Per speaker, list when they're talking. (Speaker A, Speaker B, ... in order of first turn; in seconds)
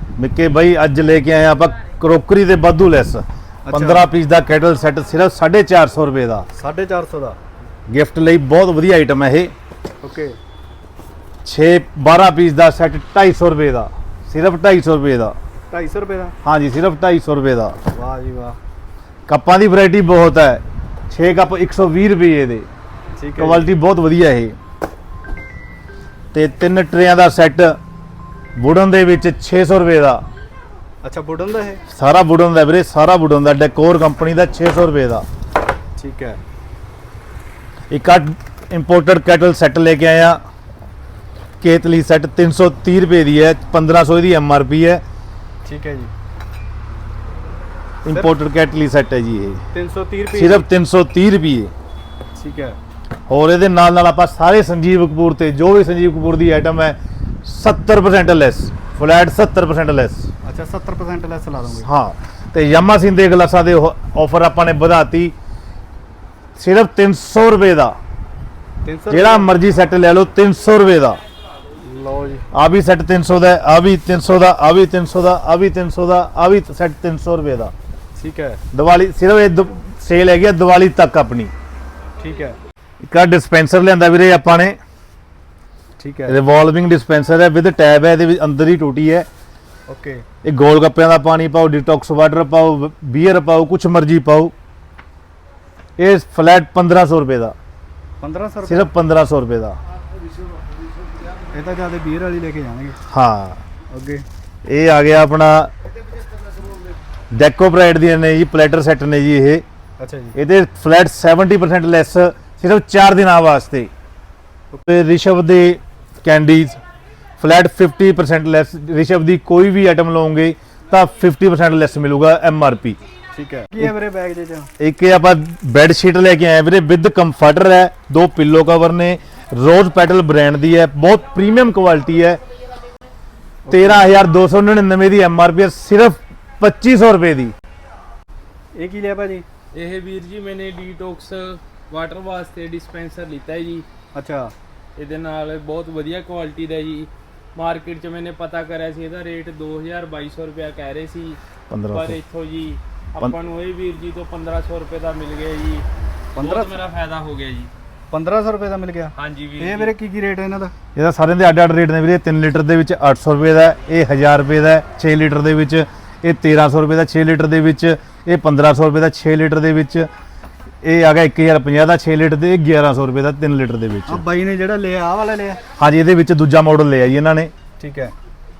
Speaker A: 0.2-6.5, 7.9-9.5, 11.4-15.3, 16.4-17.8, 19.3-22.7, 23.4-24.6, 26.3-27.8, 28.6-30.2, 31.9-35.2, 37.9-40.4, 41.6-45.0, 48.0-49.6, 50.3-51.7, 53.3-60.3, 61.8-65.3, 66.5-67.9, 69.1-71.2, 72.5-77.7, 78.7-81.5, 83.0-84.8, 86.3-89.3, 90.4-94.5, 96.0-97.5, 98.7-99.8, 103.1-103.6, 104.7-105.7, 107.3-109.6, 110.3-113.9, 114.8-116.8, 117.4-123.0, 124.8-132.4, 133.7-137.5, 151.7-152.2, 160.9-170.1, 170.8-174.2, 175.8-177.5
Speaker B: 3.6-4.1, 6.5-7.4, 10.0-10.4, 15.7-16.3, 17.9-18.6, 23.2-23.7, 31.0-31.8, 36.0-36.4, 45.6-46.1, 49.7-50.7, 52.3-52.8, 60.4-61.9, 68.8-69.5, 71.8-72.5, 78.2-78.6, 82.2-82.6, 86.0-86.4, 89.9-90.2, 98.2-98.9, 101.5-103.0, 103.9-104.2, 110.0-110.3, 123.3-124.7, 133.7-134.1, 138.8-139.4, 144.1-144.5, 156.3-156.8, 158.1-160.7, 174.1-175.6, 177.8-178.1
Speaker C: 139.7-143.8, 144.9-151.4, 151.9-157.7, 159.2-159.9